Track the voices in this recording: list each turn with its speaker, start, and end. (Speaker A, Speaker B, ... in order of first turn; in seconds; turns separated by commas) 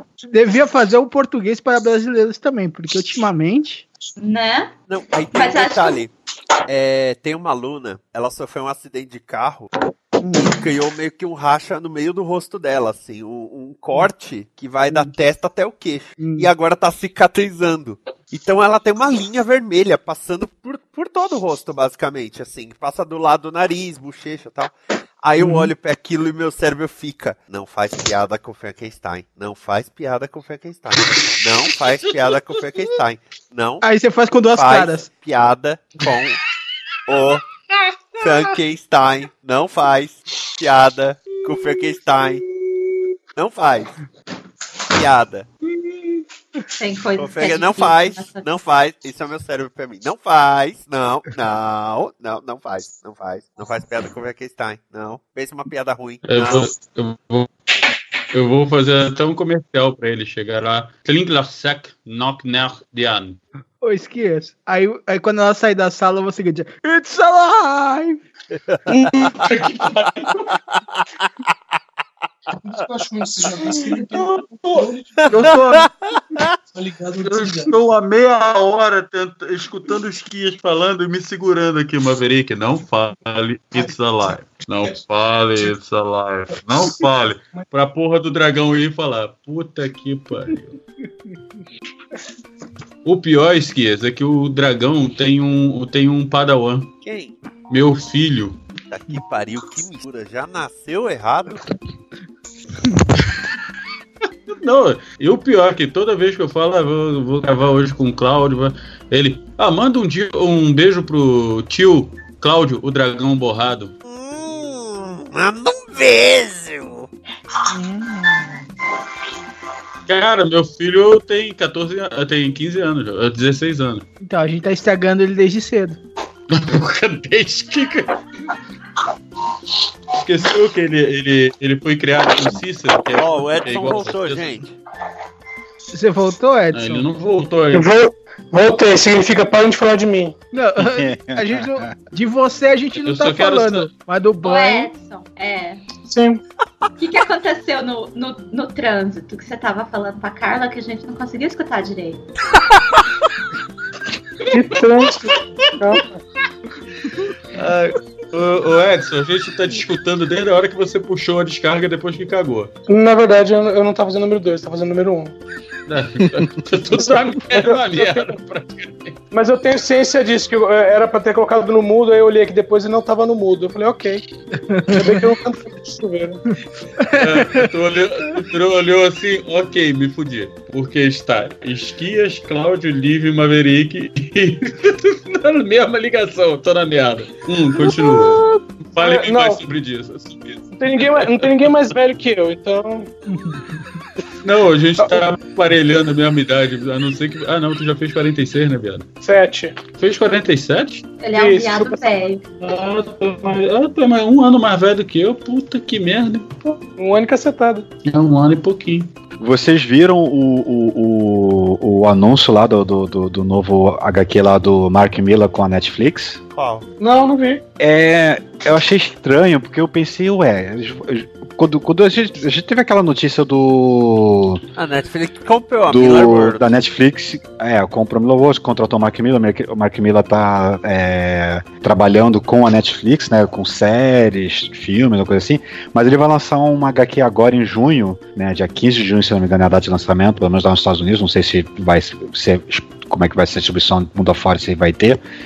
Speaker A: 0.3-3.9, Speaker B: 4.2-4.7, Speaker C: 4.9-6.1, Speaker B: 5.3-6.0, Speaker C: 6.7-33.8, Speaker A: 16.2-16.5, Speaker A: 25.4-25.7, Speaker A: 33.8-35.1, Speaker C: 34.5-36.4, Speaker C: 37.1-37.4, Speaker C: 38.2-42.4, Speaker C: 43.4-44.0, Speaker C: 44.9-45.5, Speaker B: 46.8-48.5, Speaker C: 47.2-56.7, Speaker D: 56.2-57.5, Speaker D: 58.3-63.4, Speaker A: 63.8-68.2, Speaker C: 68.6-69.3, Speaker D: 68.9-70.6, Speaker E: 72.6-75.1, Speaker D: 74.1-74.9, Speaker C: 75.2-76.5, Speaker A: 75.3-75.9, Speaker E: 76.7-77.7, Speaker D: 77.2-90.8, Speaker D: 93.0-96.9, Speaker C: 97.0-97.4, Speaker D: 97.7-98.6, Speaker C: 98.9-101.7, Speaker D: 104.5-113.9, Speaker C: 114.1-117.1, Speaker A: 117.7-118.6, Speaker D: 120.1-124.0, Speaker A: 124.2-126.0, Speaker D: 126.5-128.2, Speaker D: 130.1-134.6, Speaker C: 133.2-134.7, Speaker A: 135.9-137.1, Speaker D: 136.7-137.9, Speaker E: 137.7-140.3, Speaker A: 140.5-144.9, Speaker F: 140.8-141.9, Speaker D: 143.0-143.9, Speaker B: 144.4-145.8, Speaker E: 146.1-146.4, Speaker B: 147.0-152.2, Speaker E: 154.5-156.1, Speaker D: 157.5-162.7, Speaker E: 162.9-165.3, Speaker D: 165.9-169.2, Speaker E: 167.0-168.3, Speaker E: 169.3-174.2, Speaker A: 174.7-175.1, Speaker E: 174.9-176.4, Speaker A: 177.0-177.7, Speaker D: 177.1-191.9, Speaker E: 187.8-189.6, Speaker E: 190.8-193.1, Speaker D: 194.4-199.1, Speaker E: 199.2-199.8, Speaker D: 200.0-201.1, Speaker B: 201.2-202.4, Speaker E: 201.3-202.1, Speaker D: 202.6-206.8, Speaker E: 207.0-207.8, Speaker D: 208.1-209.1, Speaker F: 209.4-216.4, Speaker C: 216.5-216.9, Speaker E: 217.0-217.6, Speaker F: 217.8-224.6, Speaker C: 224.8-226.6, Speaker F: 225.9-245.2